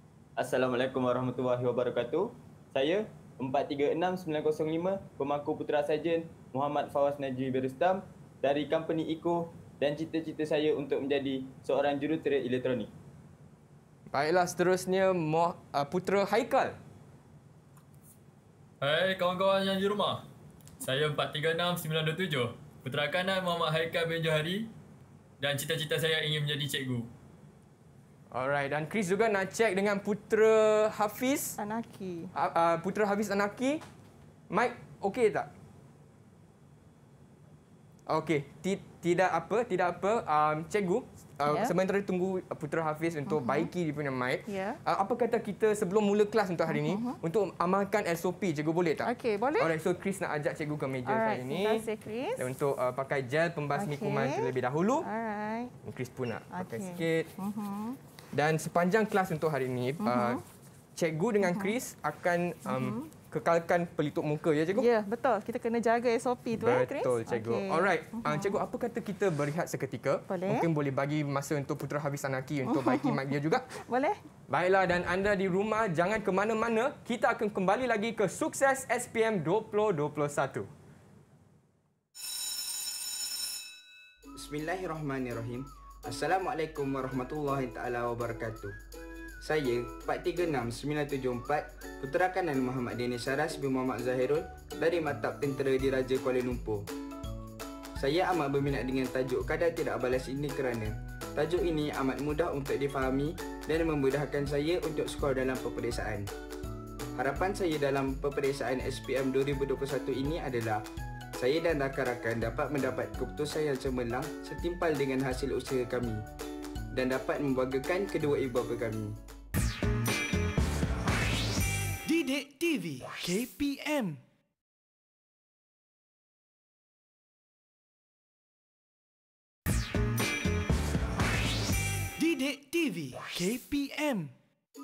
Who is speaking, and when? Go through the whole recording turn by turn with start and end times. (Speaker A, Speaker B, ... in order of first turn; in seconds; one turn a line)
Speaker A: 0.4-12.9
Speaker B: 14.1-16.8
Speaker C: 18.8-20.2
Speaker C: 20.8-24.7
Speaker C: 25.4-27.1
Speaker B: 28.3-31.6
Speaker D: 31.6-32.3
Speaker B: 32.3-33.8
Speaker B: 34.5-35.5
Speaker B: 38.1-51.9
Speaker D: 41.5-41.7
Speaker D: 43.3-43.7
Speaker D: 44.5-44.8
Speaker D: 46.7-47.2
Speaker D: 49.0-49.7
Speaker D: 51.1-52.5
Speaker B: 52.4-55.1
Speaker D: 53.8-54.5
Speaker D: 55.0-55.7
Speaker B: 55.8-57.3
Speaker D: 56.5-58.0
Speaker B: 58.3-60.4
Speaker D: 60.0-60.4
Speaker B: 61.0-64.9
Speaker D: 61.4-61.7
Speaker D: 62.7-63.1
Speaker D: 64.8-68.5
Speaker B: 66.5-73.7
Speaker D: 70.3-70.7
Speaker D: 72.7-74.2
Speaker B: 74.5-80.7
Speaker E: 84.4-88.8
Speaker E: 89.4-96.9
Speaker E: 98.0-106.3
Speaker E: 107.2-110.8
Speaker E: 111.4-116.2
Speaker E: 116.9-119.2
Speaker F: 122.1-124.2
Speaker F: 132.2-134.3